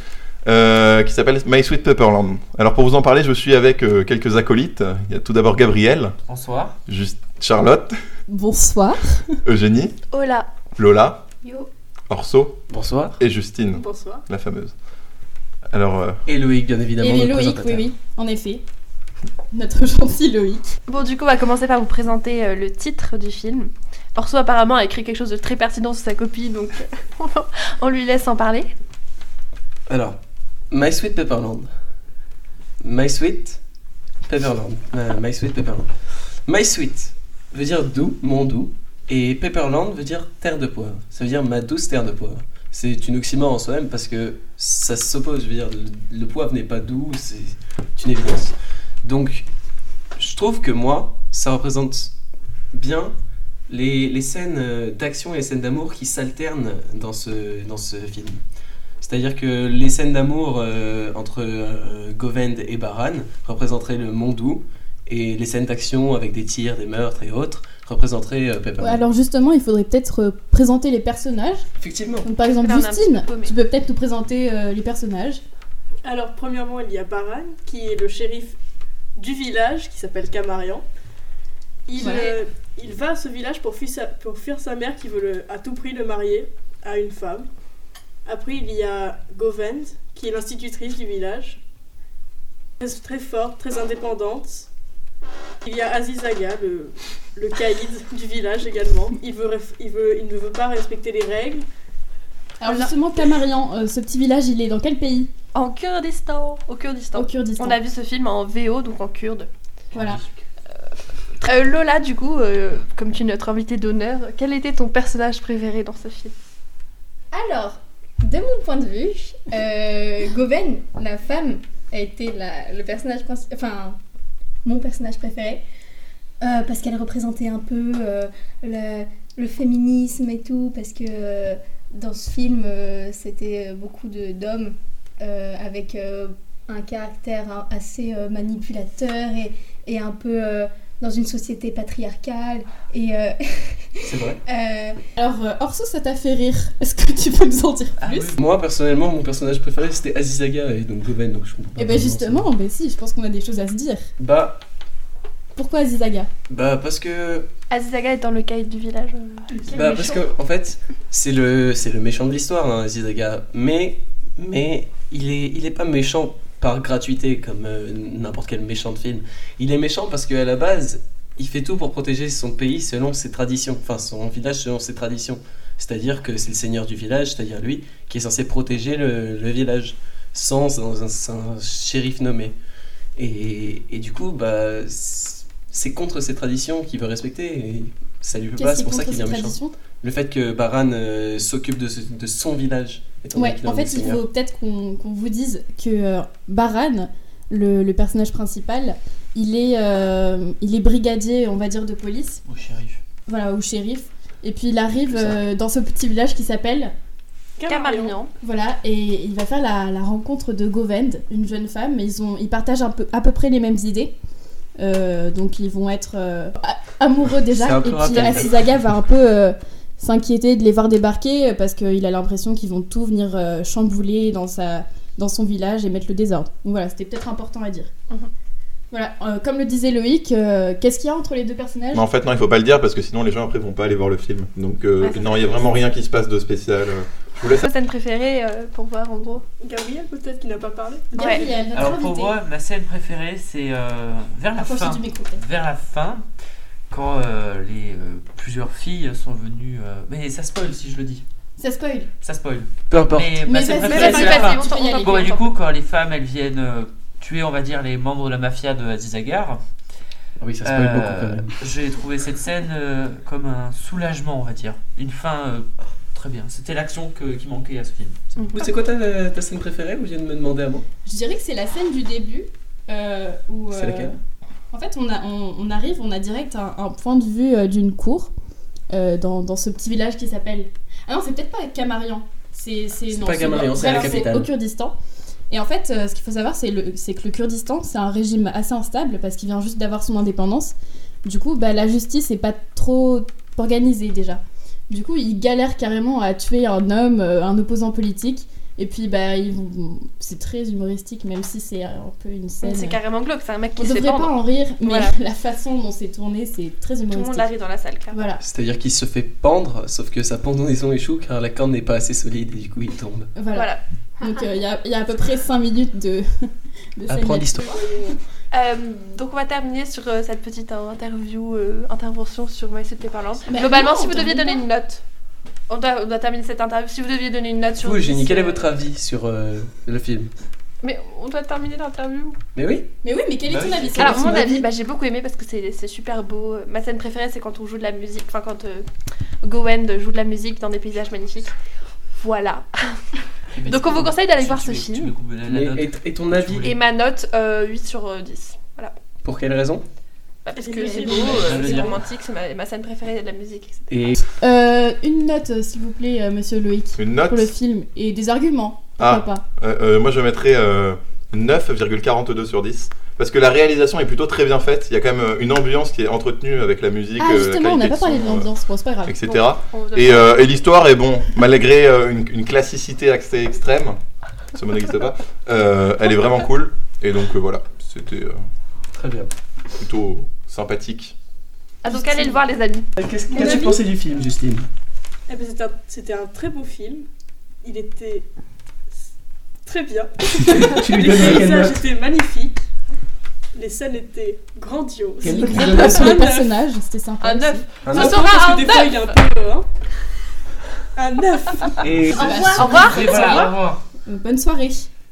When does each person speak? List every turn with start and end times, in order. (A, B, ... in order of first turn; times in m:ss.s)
0:00.4-0:06.1 A
0:06.3-0:06.8 B
0:06.8-0:07.9 A
0:08.3-0:09.4 C
0:09.4-0:09.9 A
0:10.1-0:10.5 D
0:10.8-0:11.2 A
0:12.1-0:12.6 A
0:12.7-0:13.2 E
0:13.2-0:14.7 A
0:13.7-0:14.2 F
0:15.7-0:16.2 A
0:16.3-0:17.9 E
0:17.0-0:18.6 C
0:19.5-0:20.7 C
0:20.9-0:28.7 D
0:29.9-0:30.2 E
0:30.7-0:31.7 E
0:32.8-0:33.6 E
0:34.3-0:35.9 E
0:36.5-0:49.5 E
0:50.2-0:52.1 E
0:52.7-0:53.1 E
0:53.7-0:58.4 E
0:59.0-1:09.1 E
1:08.8-1:11.6 C
1:11.8-1:12.3 E
1:12.2-1:15.4 C
1:12.6-1:13.5 D
1:16.0-1:18.6 F
1:19.2-1:20.8 F
1:21.8-1:27.5 F
1:22.0-1:22.4 D
1:22.0-1:22.3 C
1:28.2-1:31.6 F
1:32.8-1:34.7 F
1:35.6-1:41.6 F
1:42.6-1:45.3 C
1:42.6-1:42.9 D
1:45.5-1:49.5 D
1:47.1-1:47.8 C
1:49.9-1:50.3 B
1:49.9-1:50.2 C
1:51.4-1:56.3 D
1:57.3-2:04.0 G
2:04.6-2:05.6 G
2:06.4-2:25.0 G
2:24.0-2:24.4 E
2:25.2-2:28.3 C
2:28.0-2:28.4 B
2:28.4-2:32.5 E
2:31.8-2:34.0 C
2:34.2-2:34.6 E
2:35.5-2:36.3 C
2:36.5-2:37.5 E
2:37.7-2:40.3 D
2:39.7-3:02.5 E
3:03.2-3:14.2 E
3:08.6-3:09.7 C
3:13.3-3:22.4 C
3:22.4-3:23.0 B
3:23.2-3:26.9 C
3:25.0-3:25.4 E
3:27.6-3:28.2 F
3:27.7-3:28.3 D
3:28.4-3:34.1 C
3:34.8-3:47.9 C
3:37.5-3:38.5 E
3:48.9-3:52.0 C
3:51.9-3:57.6 A
3:55.0-3:55.8 D
3:57.6-3:59.4 D
3:59.6-4:01.6 F
4:01.1-4:02.4 C
4:01.2-4:01.4 D
4:01.7-4:06.2 B
4:04.6-4:05.4 C
4:06.9-4:11.2 B
4:11.6-4:12.1 C
4:12.2-4:19.6 B
4:12.9-4:13.4 E
4:13.4-4:15.3 C
4:13.7-4:15.5 D
4:20.4-4:21.6 E
4:20.6-4:28.5 B
4:28.4-4:28.6 D
4:28.5-4:30.8 E
4:31.0-4:34.2 C
4:33.7-4:34.1 E
4:34.7-4:38.3 C
4:38.9-4:44.9 C
4:43.1-4:44.5 E
4:45.5-5:03.0 C
5:02.6-5:05.1 D
5:03.8-5:07.5 C
5:07.1-5:08.3 D
5:08.1-5:08.4 C
5:08.4-5:13.3 E
5:13.3-5:13.7 C
5:13.5-5:13.8 D
5:14.2-5:18.2 C
5:17.1-5:17.7 E
5:18.5-5:25.0 D
5:23.5-5:24.6 C
5:25.7-5:28.7 D
5:27.8-5:30.3 E
5:30.8-5:32.4 D
5:32.6-5:32.9 E
5:33.0-5:34.7 C
5:33.5-5:34.4 E
5:34.0-5:38.8 D
5:39.4-5:41.5 D
5:42.2-5:43.0 D
5:43.5-5:46.8 B
5:43.6-5:45.1 D
5:45.5-5:46.7 E
5:46.6-5:48.9 D
5:49.2-5:49.8 E
5:50.4-5:53.9 D
5:50.5-5:51.9 F
5:51.2-5:52.0 B
5:53.9-5:54.2 E
5:54.4-5:59.4 C
5:57.0-5:57.5 A
5:59.0-6:08.5 A
6:07.2-6:09.4 C
6:09.0-6:14.0 A
6:09.7-6:10.7 D
6:14.5-6:18.4 A
6:19.0-6:19.3 E
6:19.8-6:21.2 A
6:21.8-6:23.8 D
6:21.9-6:22.4 C
6:23.0-6:24.7 E
6:25.3-6:27.1 F
6:27.6-6:28.3 F
6:29.6-6:32.6 F
6:30.4-6:31.8 E
6:33.5-6:36.5 F
6:35.2-6:37.6 C
6:35.2-6:36.1 E
6:35.7-6:36.2 D
6:37.2-6:39.2 D
6:37.8-6:38.2 E
6:38.0-6:39.7 F
6:40.9-6:42.0 F
6:41.6-6:43.5 D
6:41.8-6:42.4 E
6:42.1-6:42.5 G
6:42.1-6:43.2 C
6:42.5-6:43.8 B
6:44.0-6:44.9 C